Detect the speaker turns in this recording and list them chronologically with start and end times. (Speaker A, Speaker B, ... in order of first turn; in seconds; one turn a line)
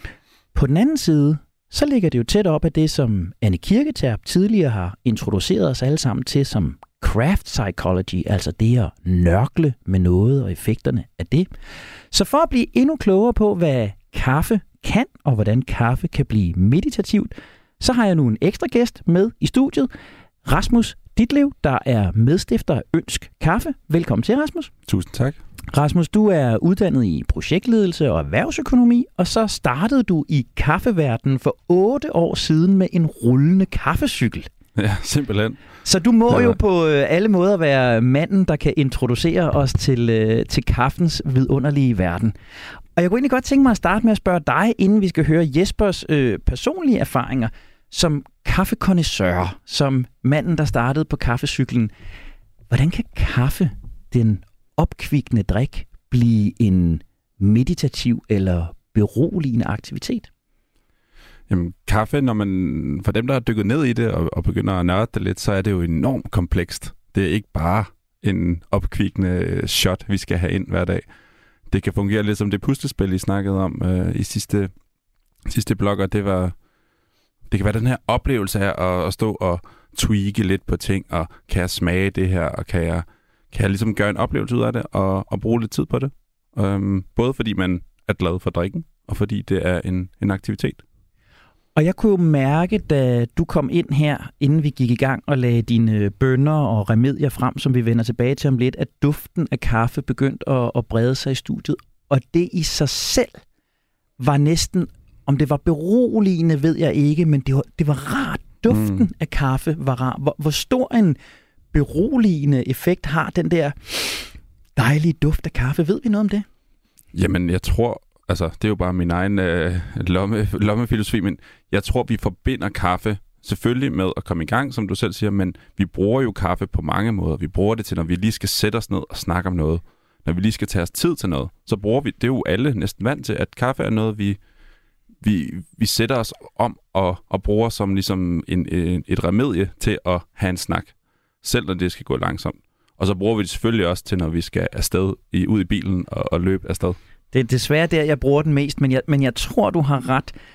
Speaker A: 0.5-11.5
Speaker A: 12.1-19.9
Speaker A: 20.4-24.7
Speaker B: 24.9-25.4
Speaker A: 25.7-34.5
Speaker B: 34.8-35.7
Speaker A: 35.8-42.3
Speaker B: 36.3-36.5
Speaker A: 43.0-51.9
Speaker A: 52.7-60.3
Speaker B: 61.5-71.0
Speaker B: 71.7-74.7
Speaker B: 75.5-76.5
Speaker B: 77.5-90.8
Speaker A: 91.8-103.4
Speaker A: 104.2-111.2
Speaker B: 108.7-109.0
Speaker A: 111.7-116.5
Speaker B: 117.1-134.4
Speaker B: 135.2-147.0
Speaker A: 147.3-150.3